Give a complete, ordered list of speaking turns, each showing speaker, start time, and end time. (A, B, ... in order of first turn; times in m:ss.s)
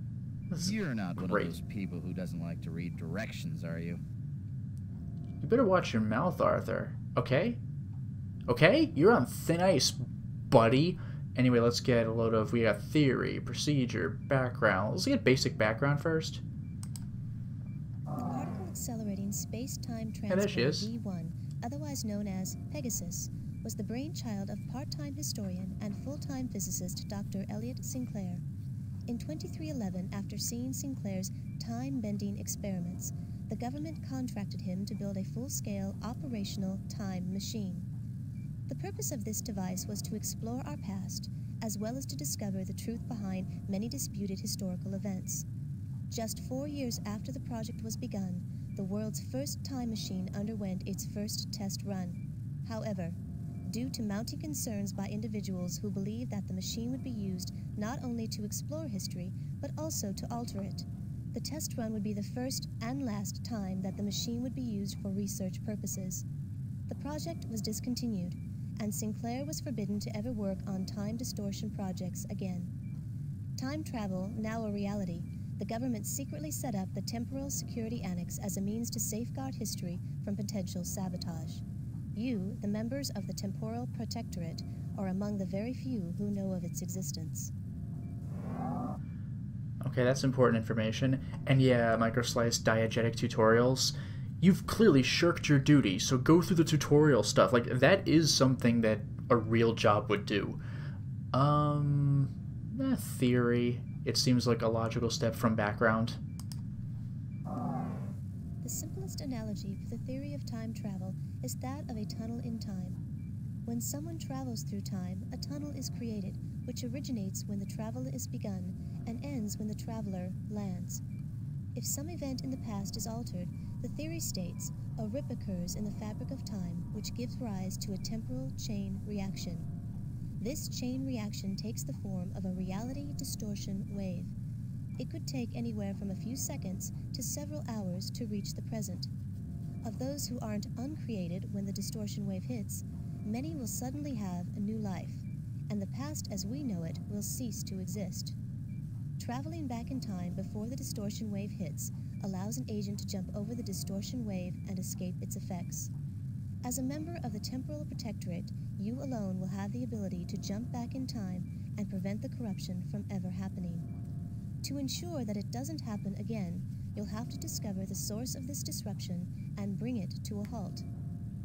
0:00.5-0:01.5 A
0:00.6-0:04.0 B
0:05.4-0:07.6 A
0:08.5-0:16.4 A
0:18.2-0:28.4 C
0:20.3-0:20.9 A
0:29.1-0:37.9 C
0:38.7-0:45.4 C
0:46.1-1:06.2 C
1:06.9-1:12.7 C
1:13.6-1:21.6 C
1:22.1-1:27.5 C
1:29.8-1:40.6 A
1:41.3-1:46.2 A
1:48.6-1:53.0 C
1:53.6-2:01.0 C
2:01.7-2:09.7 C
2:10.4-2:14.3 C
2:15.0-2:19.1 C
2:19.8-2:28.4 C
2:29.2-2:35.9 C
2:36.6-2:43.9 C
2:44.6-2:50.9 C